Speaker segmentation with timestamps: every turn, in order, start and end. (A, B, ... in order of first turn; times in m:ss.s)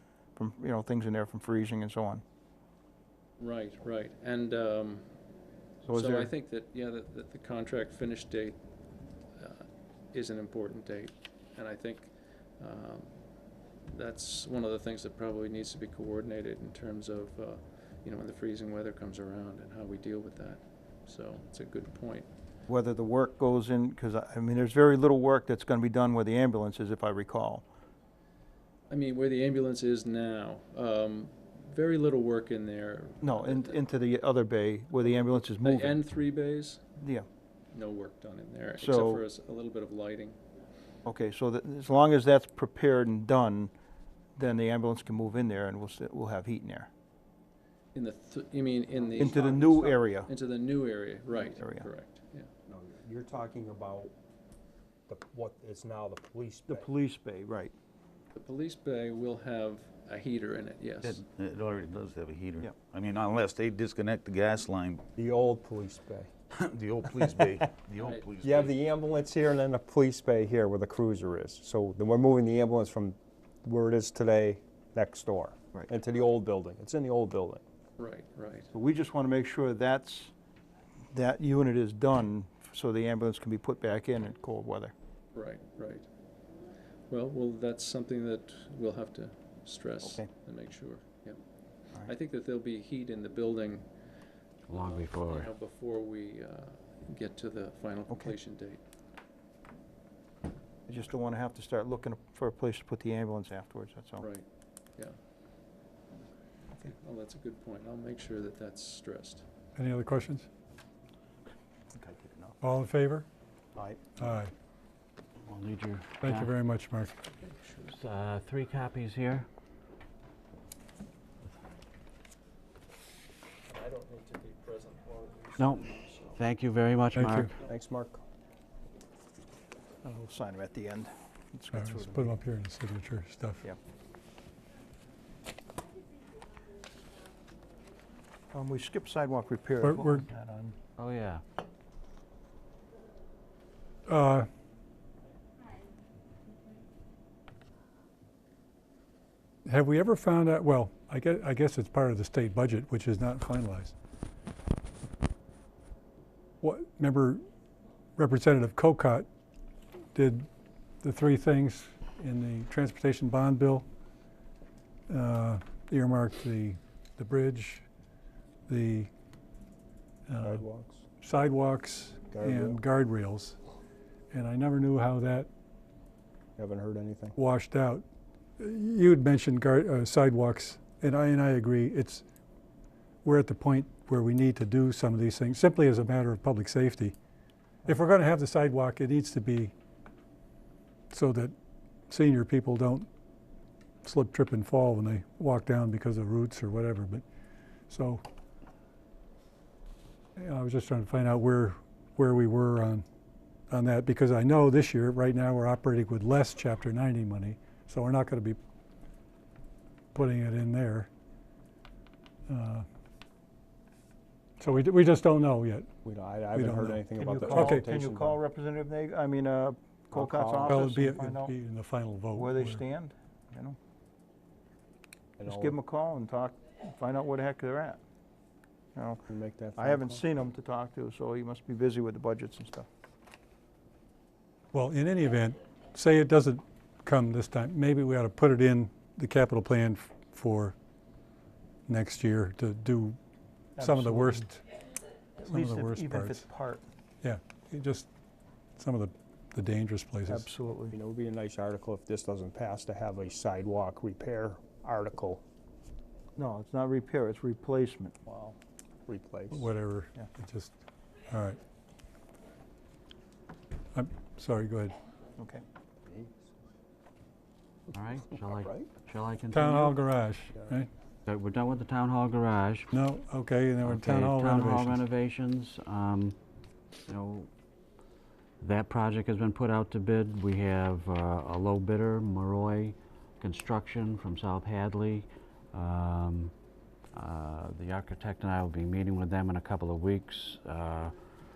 0:00.4-0:02.2 A
0:03.4-0:05.0 B
0:05.8-0:06.3 A
0:05.9-0:08.6 B
0:09.4-0:13.1 B
0:13.9-0:22.3 B
0:22.7-0:27.6 A
0:28.9-0:33.8 B
0:33.2-0:36.0 A
0:35.6-0:36.8 B
0:37.0-0:37.2 A
0:37.7-0:40.4 B
0:38.8-0:39.2 A
0:41.0-0:43.7 A
0:44.4-0:46.9 A
0:47.9-0:52.5 B
0:49.2-0:50.3 A
0:51.4-0:51.9 A
0:52.7-0:54.1 C
0:55.1-0:56.9 C
0:56.7-0:57.7 A
0:58.3-1:01.2 B
1:01.0-1:05.0 D
1:05.1-1:06.3 C
1:06.5-1:08.7 D
1:08.0-1:08.2 B
1:08.4-1:17.6 C
1:18.0-1:18.7 B
1:18.7-1:20.3 A
1:21.1-1:24.9 A
1:25.3-1:26.0 B
1:27.1-1:31.4 B
1:32.0-1:33.9 B
1:34.7-1:35.5 E
1:34.7-1:38.8 B
1:38.1-1:38.3 A
1:40.9-1:44.2 A
1:46.8-1:49.4 B
1:49.8-1:50.5 F
1:52.0-1:52.3 A
1:52.6-1:53.3 F
1:53.7-1:54.1 A
1:54.2-1:54.5 F
1:55.4-1:56.5 E
1:56.2-1:57.1 F
1:57.3-1:58.0 B
1:57.9-1:59.5 E
2:03.7-2:06.4 B
2:05.6-2:07.5 E
2:07.1-2:07.5 F
2:07.6-2:08.2 C
2:10.0-2:12.4 A
2:11.7-2:13.6 F
2:18.5-2:20.7 A
2:19.8-2:20.2 F
2:21.0-2:21.4 E
2:24.1-2:24.5 F
2:29.7-2:33.9 F
2:36.6-2:37.4 F
2:38.2-2:39.3 F
2:40.1-2:40.5 F
2:41.0-2:43.9 F
2:45.1-2:47.8 F
2:48.7-2:49.1 F
2:50.3-2:50.6 F
2:50.4-2:51.0 C
2:51.2-2:53.6 F
2:52.3-2:52.8 C
2:54.3-2:55.5 F
2:56.6-2:57.3 C
2:57.4-2:58.0 F
2:58.6-3:02.2 F
3:03.2-3:07.2 F
3:07.8-3:09.7 F
3:11.1-3:11.5 F
3:12.1-3:13.1 F
3:14.0-3:17.2 F
3:17.9-3:18.2 F
3:20.4-3:23.0 F
3:23.7-3:28.6 F
3:30.1-3:31.1 F
3:32.5-3:32.8 F
3:34.6-3:35.9 F
3:36.0-3:38.4 C
3:36.5-3:37.8 F
3:37.2-3:41.5 A
3:40.1-3:40.9 C
3:40.6-3:42.8 F
3:42.3-3:43.8 A
3:45.4-3:45.8 C
3:45.4-3:48.0 A
3:48.9-3:49.2 A
3:49.3-3:50.2 C
3:49.8-3:52.9 A
3:54.7-4:00.8 F
4:01.9-4:03.2 F
4:03.8-4:04.5 A
4:03.8-4:04.6 F
4:05.4-4:06.8 A
4:05.5-4:06.4 F
4:07.2-4:08.1 F
4:08.8-4:10.4 F
4:10.3-4:10.9 A
4:10.9-4:15.4 C
4:16.4-4:18.1 A
4:18.2-4:19.7 C
4:19.5-4:20.7 F
4:21.3-4:21.6 F
4:23.9-4:24.9 F
4:25.4-4:25.6 A
4:26.0-4:26.4 C
4:27.9-4:30.0 E
4:28.4-4:28.9 C
4:29.5-4:30.9 F
4:31.2-4:32.9 E
4:32.9-4:35.0 F
4:33.8-4:36.4 E
4:37.0-4:37.5 E
4:38.6-4:46.5 E
4:47.1-4:51.1 E